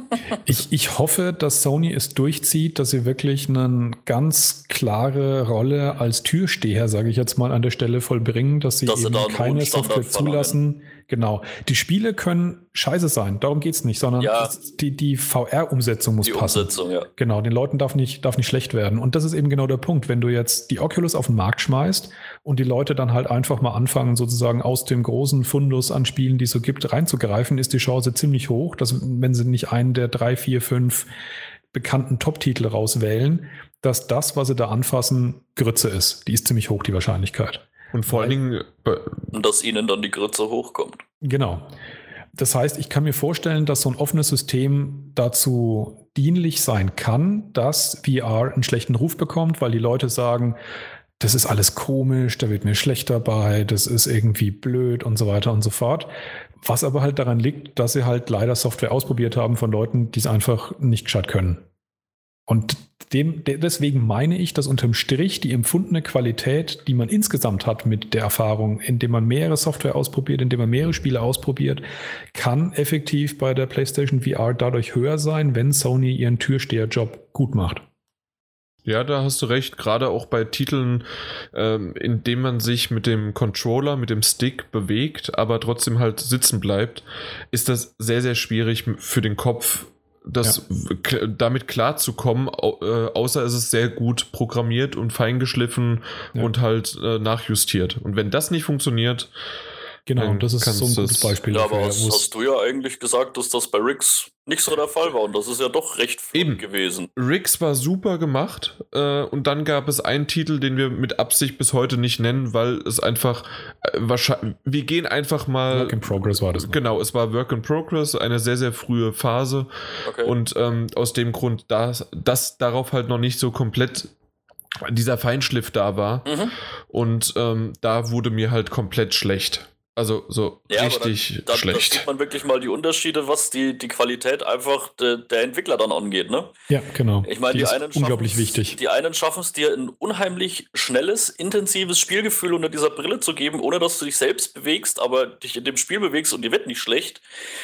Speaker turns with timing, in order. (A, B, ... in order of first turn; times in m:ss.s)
0:00.4-0:31.1 A
0:08.8-0:10.6 B
0:14.2-0:14.5 B
0:16.2-0:17.1 B
0:31.7-0:38.4 A
0:37.9-0:39.3 C
0:39.3-0:41.0 B
0:41.2-0:41.7 A
0:42.4-0:50.6 A
0:51.2-0:56.1 A
0:56.6-1:01.6 A
1:02.5-1:11.8 A
1:12.3-1:17.8 A
1:18.8-1:39.3 C
1:40.1-1:42.3 A
1:40.2-1:41.4 C
1:41.5-1:47.1 B
1:46.3-1:46.6 C
1:47.2-1:59.7 C
1:55.7-1:56.8 A
2:00.0-2:00.3 B
2:00.2-2:04.1 C
2:04.8-2:06.3 C
2:06.2-2:06.5 B
2:06.9-2:12.1 C
2:10.7-2:16.5 B
2:16.7-2:18.8 A
2:17.2-2:27.2 B